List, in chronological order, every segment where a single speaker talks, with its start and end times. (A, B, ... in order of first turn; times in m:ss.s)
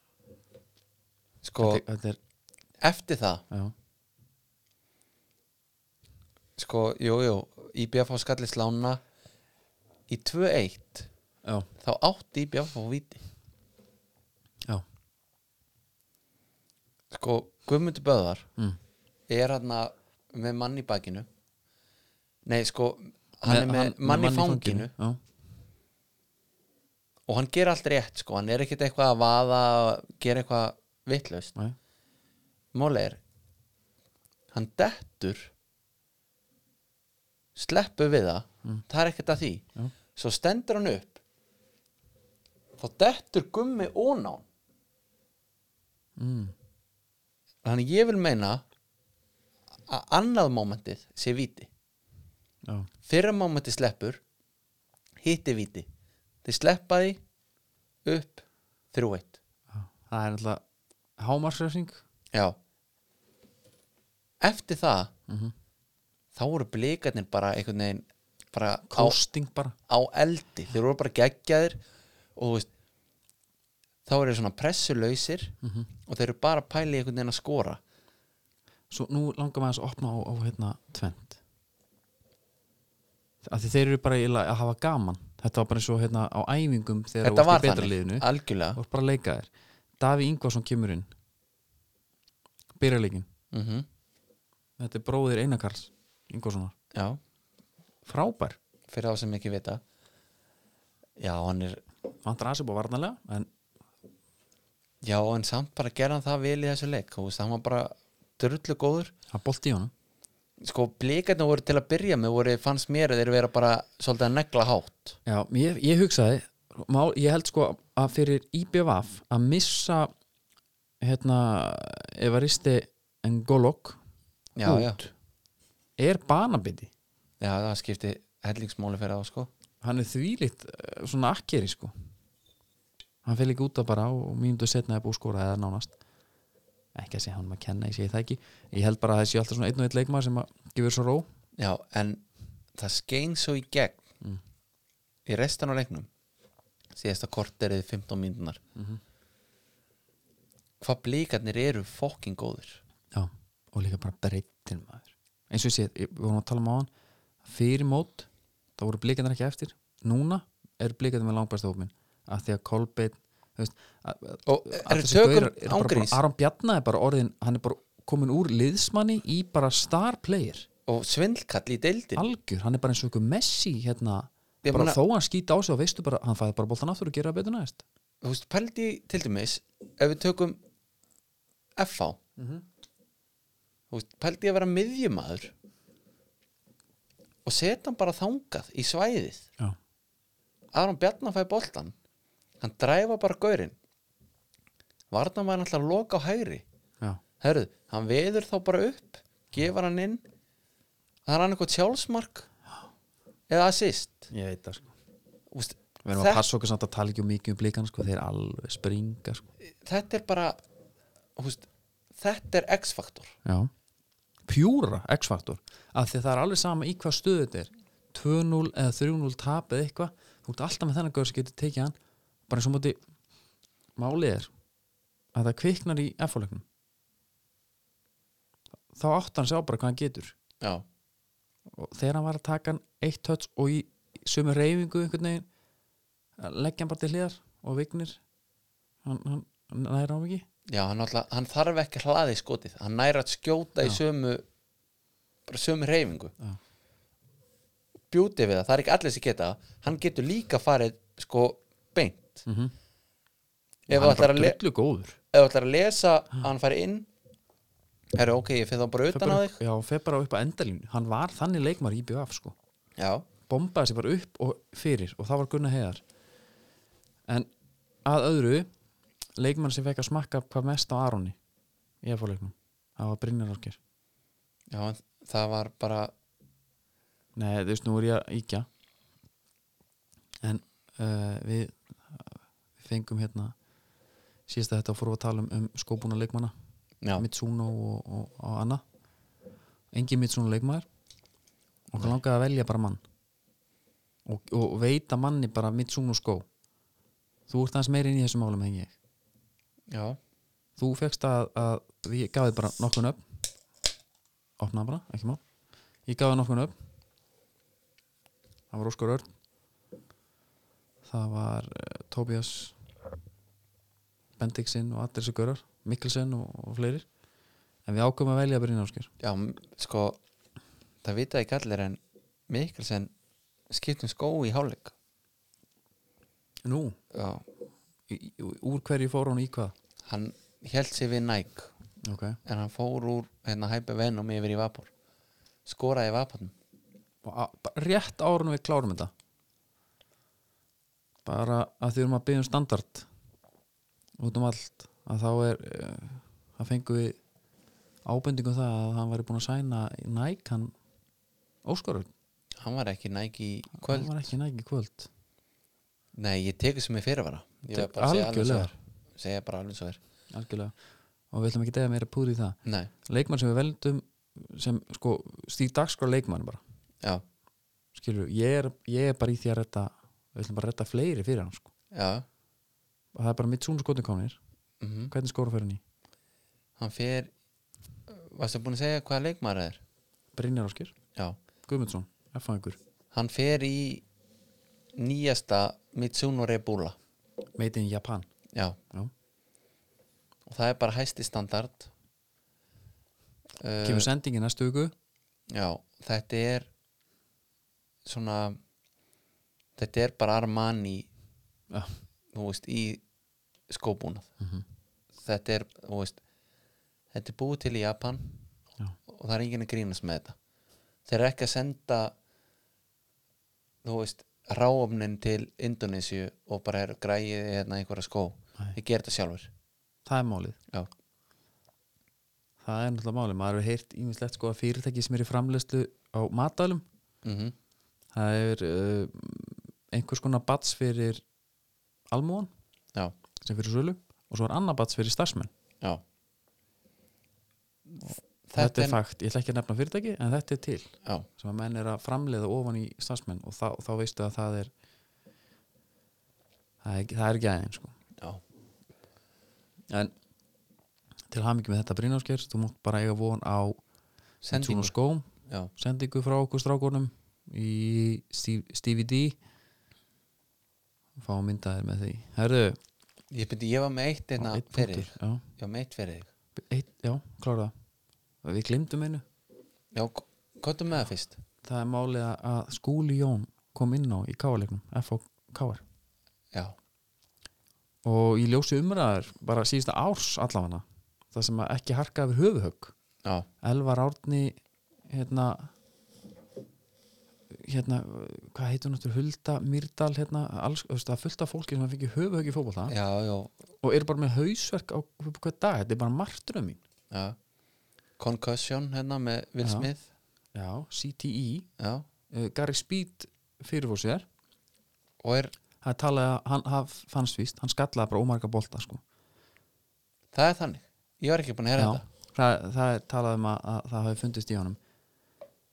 0:01.4-0:01.8 A
0:01.6-0:02.2 B
0:02.8-0:03.4 A
0:06.6-0:09.0 A
0:10.1-0:11.1 A
0:11.8-0:13.2 A
0:17.1-0:18.5 A
0:19.3-0:21.3 A
0:22.5-0:24.9 A
0:23.4-0:25.2 B
0:27.3-0:31.5 A
0:32.7-0:33.2 A
0:34.5-0:35.5 A
0:37.6-0:41.2 A
0:42.8-0:44.4 A
0:46.2-0:46.5 B
0:47.6-0:48.6 A
0:49.9-0:51.7 A
0:53.1-0:54.2 A
0:55.2-0:55.9 A
0:56.4-0:57.2 A
0:58.0-0:59.4 A
0:59.7-1:00.6 B
1:01.2-1:02.0 B
1:04.4-1:05.1 A
1:05.3-1:05.5 B
1:06.4-1:09.2 A
1:08.9-1:09.8 B
1:09.9-1:11.8 A
1:12.4-1:12.7 A
1:14.1-1:15.6 A
1:15.6-1:15.9 B
1:16.1-1:17.8 A
1:18.9-1:21.4 B
1:23.4-1:28.2 B
1:27.2-1:28.8 A
1:28.8-1:31.1 B
1:32.8-1:33.3 B
1:33.5-1:33.9 A
1:34.8-1:36.7 B
1:36.9-1:37.2 A
1:38.0-1:38.6 B
1:38.9-1:39.8 A
1:41.2-1:41.8 A
1:42.2-1:43.5 B
1:45.0-1:49.1 A
1:49.3-1:49.9 B
1:50.6-1:55.2 A
1:55.3-2:00.1 B
2:01.0-2:04.0 B
2:04.6-2:05.0 A
2:04.6-2:05.1 B
2:06.0-2:06.9 B
2:07.4-2:09.5 A
2:09.8-2:11.9 B
2:13.2-2:15.9 B
2:17.0-2:21.3 B
2:21.6-2:22.2 A
2:22.8-2:24.0 A
2:25.3-2:26.1 A
2:27.0-2:28.6 A
2:28.8-2:29.0 B
2:30.8-2:32.8 A
2:33.1-2:36.9 B
2:37.4-2:50.7 B
2:44.5-2:46.2 A
2:50.9-2:52.2 A
2:52.2-2:57.8 B
2:54.6-2:55.0 A
2:58.2-3:00.6 A
3:01.8-3:02.2 A
3:02.4-3:02.6 B
3:03.9-3:05.5 A
3:07.4-3:09.5 A
3:10.7-3:11.9 A
3:12.6-3:13.8 A
3:15.1-3:16.6 A
3:17.4-3:20.2 A
3:21.3-3:22.5 A
3:23.5-3:24.3 A
3:24.3-3:24.9 B
3:25.5-3:26.4 A
3:26.0-3:29.4 B
3:29.7-3:30.6 A
3:31.4-3:31.7 A
3:32.2-3:33.4 A
3:33.4-3:33.7 B
3:34.4-3:42.0 B
3:42.5-3:43.0 B
3:44.0-3:44.5 B
3:45.3-3:46.6 B
3:48.9-3:50.4 B
3:51.7-3:55.5 B
3:56.4-3:58.2 B
3:59.0-4:00.4 B
4:00.7-4:04.4 A
4:05.5-4:06.3 A
4:08.1-4:12.5 A
4:12.5-4:12.7 B
4:13.9-4:14.6 A
4:13.9-4:15.2 B
4:15.3-4:17.1 A
4:18.1-4:19.6 A
4:19.1-4:22.6 B
4:23.0-4:23.3 A
4:23.5-4:26.0 B
4:28.0-4:28.7 B
4:29.4-4:31.4 B
4:32.0-4:33.8 B
4:34.7-4:36.1 A
4:37.4-4:38.7 B
4:40.4-4:43.6 B
4:44.5-4:46.5 B
4:47.2-4:48.8 B
4:49.9-4:50.9 B
4:51.9-4:53.0 B
4:54.3-4:56.5 B
4:57.5-4:58.9 B
4:59.9-5:00.2 A
5:00.8-5:03.2 B
5:04.6-5:05.4 B
5:06.1-5:06.7 B
5:08.7-5:09.2 B
5:11.0-5:12.8 B
5:14.4-5:17.1 B
5:17.9-5:19.1 B
5:19.2-5:20.2 A
5:21.0-5:23.1 A
5:23.7-5:24.9 A
5:26.6-5:27.0 B
5:27.1-5:27.4 A
5:28.1-5:29.7 B
5:30.1-5:31.7 A
5:32.0-5:32.4 B
5:32.4-5:34.9 A
5:35.7-5:36.5 A
5:37.2-5:39.1 B
5:41.2-5:43.1 B
5:44.2-5:47.2 B
5:48.0-5:50.7 B
5:51.6-5:52.1 B
5:52.6-5:54.3 A
5:53.8-5:55.1 B
5:56.2-6:00.0 A
5:57.7-5:58.7 B
6:00.3-6:00.7 B
6:01.3-6:06.6 B
6:02.7-6:02.9 A
6:08.0-6:11.7 B
6:11.9-6:12.2 A
6:13.1-6:14.4 B
6:14.8-6:15.1 A
6:15.1-6:15.8 B
6:16.8-6:17.3 A
6:18.1-6:19.8 A
6:20.3-6:20.9 B
6:21.7-6:22.8 B
6:23.1-6:24.0 A
6:25.0-6:27.0 A
6:27.6-6:28.3 B
6:28.5-6:28.8 A
6:30.5-6:31.9 A
6:33.6-6:34.1 A
6:33.8-6:34.9 B
6:35.5-6:36.7 A
6:38.0-6:38.6 A
6:39.8-6:41.1 A
6:41.7-6:42.0 B
6:42.3-6:43.0 A
6:43.7-6:44.3 A
6:45.2-6:46.2 A
6:47.1-6:48.2 A
6:49.1-6:50.4 A
6:51.1-6:52.1 A
6:53.8-6:59.5 A
7:00.1-7:00.6 B
7:02.6-7:06.8 B
7:07.2-7:07.5 A
7:08.1-7:11.2 B
7:12.1-7:12.5 B
7:13.4-7:15.5 B
7:17.9-7:19.0 A
7:18.6-7:24.7 B
7:26.8-7:27.9 B
7:29.9-7:30.1 B
7:31.3-7:33.8 B
7:34.4-7:35.0 A
7:34.5-7:39.4 B
7:41.2-7:42.8 B
7:43.3-7:46.3 A
7:44.4-7:45.4 B
7:46.6-7:47.7 B
7:48.4-7:49.2 B
7:49.9-7:51.4 A
7:51.6-7:55.8 B
7:58.0-8:02.9 B
8:03.6-8:05.7 B
8:07.5-8:12.9 B
8:12.9-8:13.5 A
8:13.8-8:16.8 B
8:17.1-8:17.4 A
8:18.2-8:20.1 A
8:20.5-8:21.7 B
8:21.8-8:22.1 A
8:22.3-8:24.3 B
8:25.2-8:25.5 A
8:25.8-8:29.0 B
8:30.3-8:32.0 A
8:31.8-8:34.8 B